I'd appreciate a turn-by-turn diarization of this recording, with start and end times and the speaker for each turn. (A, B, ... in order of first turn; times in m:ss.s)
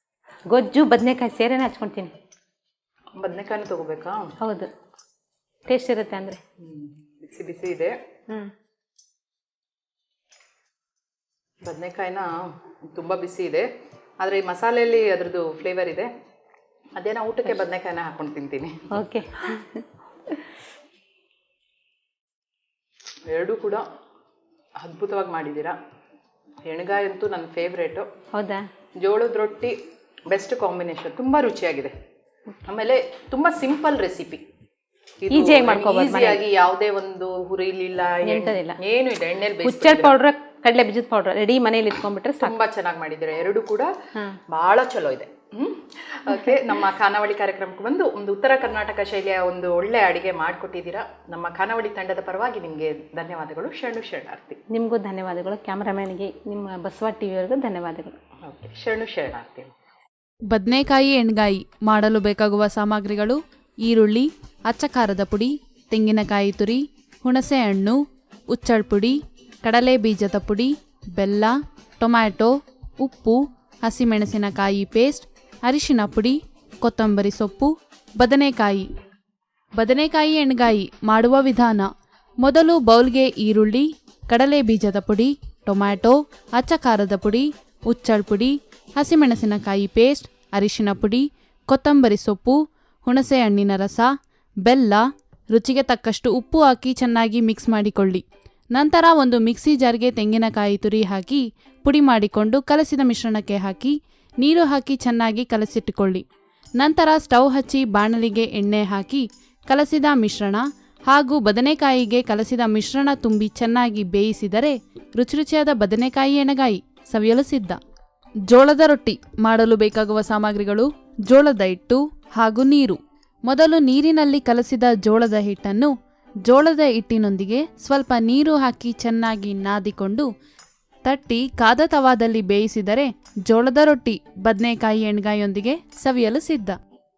0:00.5-0:02.1 A
0:03.2-0:04.3 B
0:04.4-0:04.7 A
0:05.7-0:06.4 A
0:06.6-0:07.9 B
0:11.6-0:12.3 B
0:12.9-0:13.7 B
0:14.2-0:16.1 B
0:17.0-0:18.9 B
0:18.9-0:19.8 A
0:23.3-0:23.8 B
0:24.8-0:25.8 B
0:26.6-0:28.0 B
0:28.3-0:28.6 A
0:29.0-0:29.8 B
0:30.3-0:31.9 B
0:32.6-0:34.4 B
0:35.2-0:40.2 B
0:35.3-0:36.4 A
0:38.2-0:38.8 A
0:39.6-0:42.5 A
0:42.4-0:43.9 B
0:44.5-0:54.6 B
0:54.7-0:58.2 A
0:58.5-0:59.7 B
1:00.5-1:08.0 C
1:08.5-1:12.5 C
1:13.0-1:18.8 C
1:19.8-1:21.9 C
1:22.4-1:34.1 C
1:34.6-1:35.0 C
1:35.5-1:38.2 C
1:38.7-1:46.2 C
1:46.8-1:57.8 C
1:58.5-2:05.9 C
2:06.5-2:10.3 C
2:11.0-2:16.8 C